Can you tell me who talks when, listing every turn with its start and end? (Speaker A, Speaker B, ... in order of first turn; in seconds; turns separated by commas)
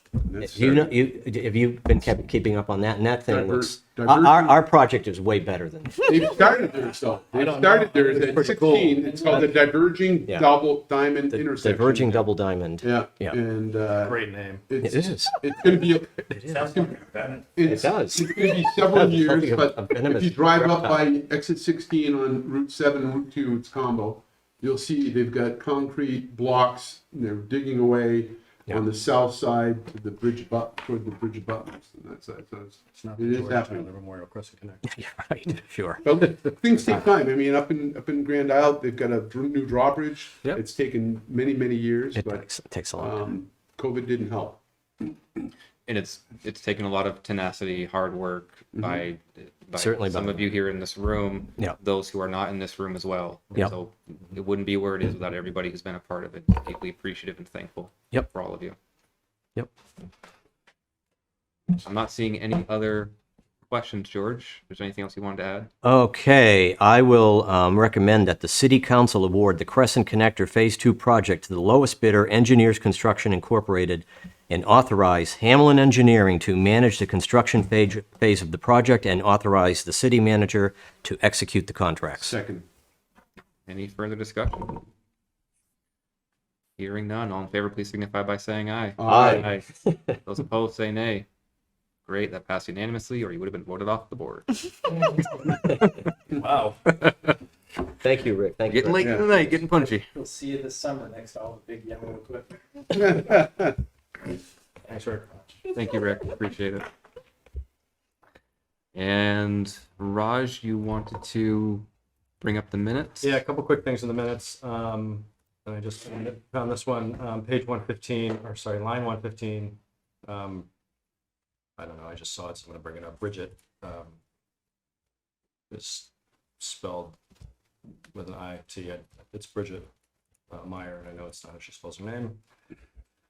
Speaker A: 0.2-1.0, Speaker B: 0.4-6.2, Speaker A: 3.3-4.6, Speaker A: 6.0-12.3, Speaker C: 7.3-9.0, Speaker B: 8.4-8.8, Speaker D: 9.0-9.6, Speaker B: 11.3-13.4, Speaker A: 12.8-33.9, Speaker C: 13.9-14.8, Speaker B: 14.8-15.3, Speaker C: 15.7-17.7, Speaker B: 17.6-21.0, Speaker C: 32.9-35.0, Speaker B: 34.9-36.0, Speaker A: 36.0-42.5, Speaker B: 42.1-43.3, Speaker A: 43.0-45.1, Speaker E: 45.9-58.8, Speaker A: 48.8-49.0, Speaker B: 49.8-50.5, Speaker E: 61.8-63.1, Speaker E: 63.7-65.7, Speaker B: 65.8-82.3, Speaker A: 82.2-82.7, Speaker E: 83.7-84.8, Speaker E: 86.8-89.7, Speaker A: 89.0-89.5, Speaker B: 89.1-90.2, Speaker E: 90.2-91.3, Speaker E: 92.0-95.9, Speaker C: 96.3-97.1, Speaker B: 98.0-99.5, Speaker E: 98.7-100.1, Speaker A: 99.0-99.3, Speaker D: 99.5-103.3, Speaker A: 103.2-103.7, Speaker C: 104.9-105.6, Speaker E: 105.7-106.9, Speaker E: 109.0-111.9, Speaker E: 112.4-113.4, Speaker C: 113.2-120.7, Speaker C: 121.8-124.2, Speaker C: 125.7-127.2, Speaker C: 128.1-129.9, Speaker C: 130.5-132.4